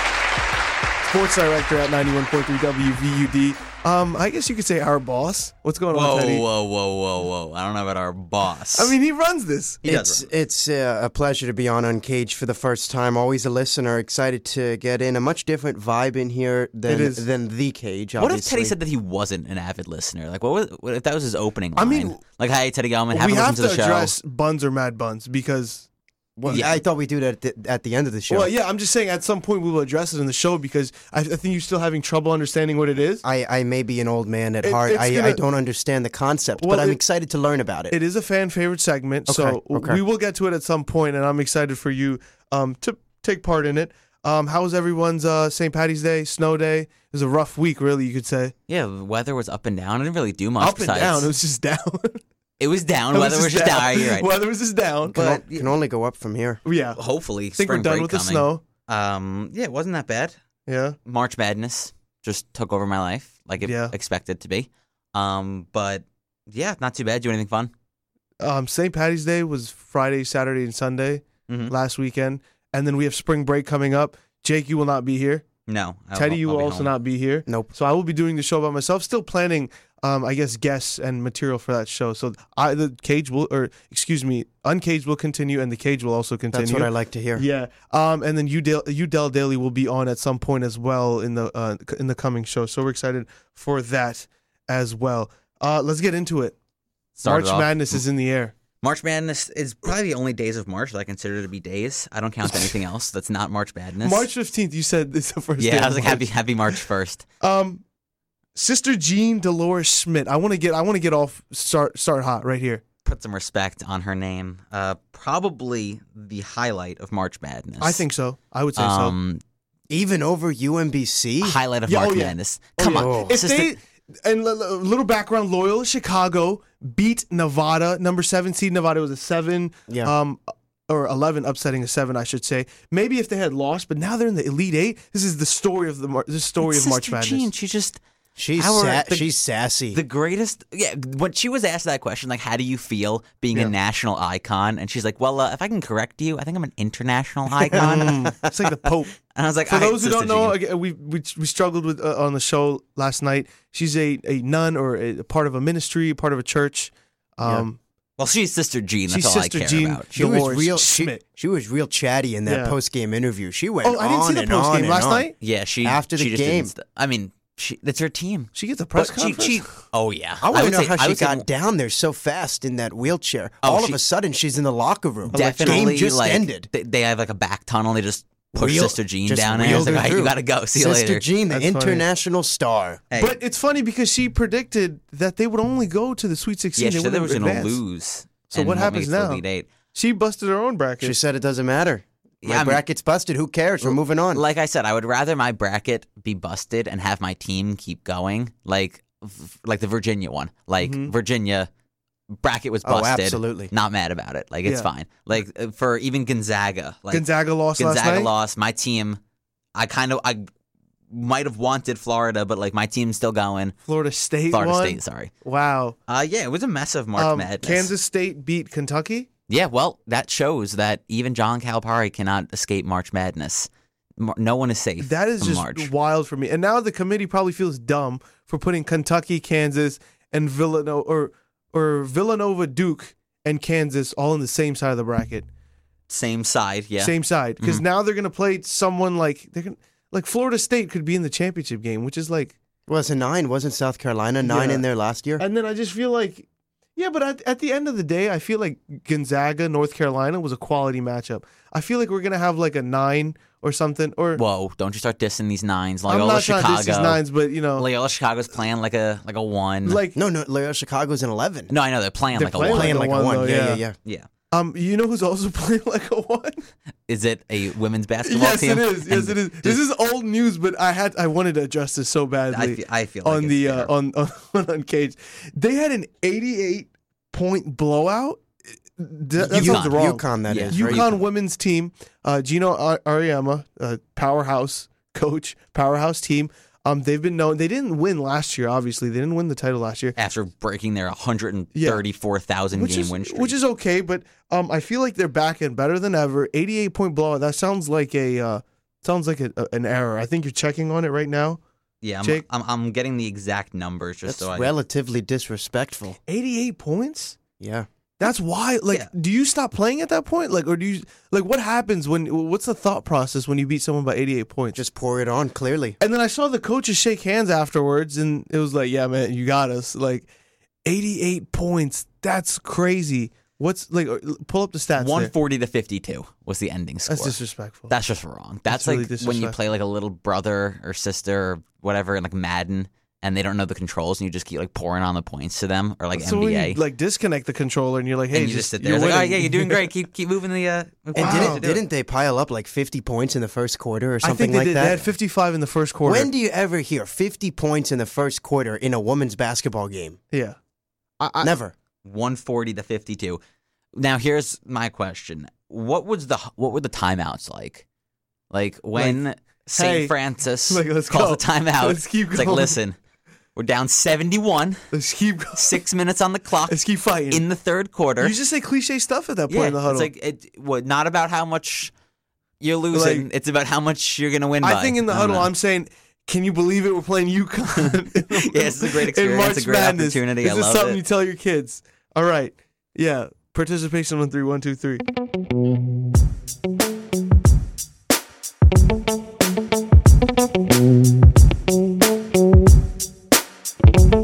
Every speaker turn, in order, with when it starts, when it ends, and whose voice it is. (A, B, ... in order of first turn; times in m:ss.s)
0:01.1-0:06.4 A
0:05.9-0:09.0 B
0:08.7-0:09.8 A
0:09.8-0:18.8 C
0:09.8-0:10.3 B
0:16.9-0:17.2 A
0:18.2-0:24.1 B
0:21.8-0:22.2 A
0:23.1-0:25.9 A
0:26.4-0:28.5 C
0:26.5-0:26.7 A
0:26.5-0:26.8 B
0:28.3-0:33.2 A
0:33.2-0:38.0 C
0:34.6-0:35.4 A
0:36.6-0:37.0 A
0:37.9-0:48.5 A
0:39.3-0:40.0 C
0:48.7-0:51.3 B
0:50.6-0:52.2 A
0:52.6-0:54.3 B
0:53.1-0:55.3 A
0:55.1-0:56.6 C
0:55.2-0:55.7 B
0:56.6-0:57.0 A
0:57.0-1:00.4 B
0:57.6-0:58.6 A
1:00.7-1:01.0 A
1:01.1-1:07.7 B
1:03.6-1:03.9 A
1:08.4-1:15.5 A
1:11.5-1:11.7 B
1:15.7-1:16.9 B
1:16.2-1:36.6 A
1:26.5-1:27.4 C
1:37.2-1:38.0 B
1:37.2-1:38.5 A
1:38.8-1:44.3 B
1:42.4-1:42.8 A
1:44.0-1:46.8 A
1:45.6-1:47.2 B
1:47.4-1:47.8 A
1:48.6-1:52.8 A
1:53.0-1:58.0 B
1:57.8-1:59.2 A
1:58.8-1:59.4 B
1:59.9-2:01.6 C
2:01.4-2:03.8 B
2:01.9-2:17.5 A
2:02.9-2:03.4 C
2:09.9-2:10.1 C
2:16.6-2:18.0 B
2:18.4-2:20.0 C
2:18.6-2:19.3 B
2:19.9-2:28.4 B
2:27.7-2:28.5 C
2:27.7-2:29.1 A
2:29.4-2:30.6 B
2:29.7-2:37.8 A
2:38.2-2:40.1 B
2:39.1-2:41.2 A
2:40.2-2:45.3 C
2:42.5-2:42.8 A
2:43.8-2:45.3 A
2:45.4-2:51.4 B
2:45.8-2:46.7 C
2:48.6-2:49.6 A
2:49.2-2:49.5 C
2:50.4-2:56.7 C
2:53.6-2:54.0 B
2:55.3-2:55.9 A
2:55.3-3:01.2 B
2:58.5-3:03.0 C
2:59.6-3:00.1 A
3:01.5-3:02.0 A
3:03.1-3:03.4 B
3:03.2-3:07.8 A
3:06.8-3:09.7 B
3:08.5-3:09.4 A
3:09.9-3:11.2 A
3:11.0-3:14.4 C
3:12.4-3:12.8 B
3:13.9-3:21.7 B
3:20.8-3:21.1 A
3:22.4-3:29.2 B
3:22.8-3:23.7 C
3:27.1-3:28.3 A
3:29.8-3:30.5 B
3:31.1-3:33.8 B
3:33.9-3:36.0 A
3:34.5-3:35.3 B
3:36.1-3:37.9 B
3:37.2-3:39.3 A
3:39.5-3:45.9 B
3:45.0-3:55.5 A
3:56.1-3:57.8 B
3:57.0-4:02.6 A
4:02.9-4:05.4 C
4:04.4-4:04.8 A
4:05.4-4:14.4 A
4:14.4-4:17.2 B
4:16.1-4:17.9 A
4:17.8-4:20.0 B
4:19.9-4:20.2 A
4:20.2-4:21.7 C
4:21.7-4:22.9 B
4:22.4-4:23.8 A
4:22.6-4:24.0 C
4:24.5-4:26.7 A
4:27.1-4:29.8 B
4:28.2-4:38.4 A
4:32.5-4:33.9 B
4:39.0-4:50.2 A
4:39.4-4:41.2 C
4:39.5-4:41.2 B
4:50.2-4:53.6 B
4:51.8-4:52.0 A
4:52.7-5:01.6 A
5:02.0-5:04.7 B
5:04.3-5:06.2 C
5:06.3-5:07.4 A
5:07.6-5:07.9 C
5:08.2-5:14.8 A
5:14.7-5:16.0 C
5:16.0-5:20.3 A
5:20.8-5:25.3 A
5:25.0-5:27.4 B
5:27.1-5:27.9 A
5:27.9-5:36.8 B
5:28.7-5:29.6 A
5:36.1-5:39.9 A
5:38.3-5:41.8 B
5:41.2-5:45.1 C
5:41.2-5:41.6 A
5:44.2-5:46.3 A
5:46.0-5:50.2 C
5:50.3-5:50.6 A
5:51.2-5:51.5 A
5:51.4-5:51.7 C
5:52.0-5:53.4 B
5:54.0-5:57.8 B
5:58.5-6:03.0 B
5:59.0-5:59.2 A
5:59.7-6:00.1 A
6:00.7-6:02.8 A
6:03.6-6:04.8 B
6:04.9-6:05.8 A
6:05.5-6:06.8 B
6:06.7-6:07.4 A
6:07.3-6:08.4 B
6:08.2-6:10.1 A
6:09.5-6:11.9 B
6:12.6-6:15.5 B
6:12.9-6:13.3 A
6:14.6-6:25.0 A
6:17.8-6:21.0 B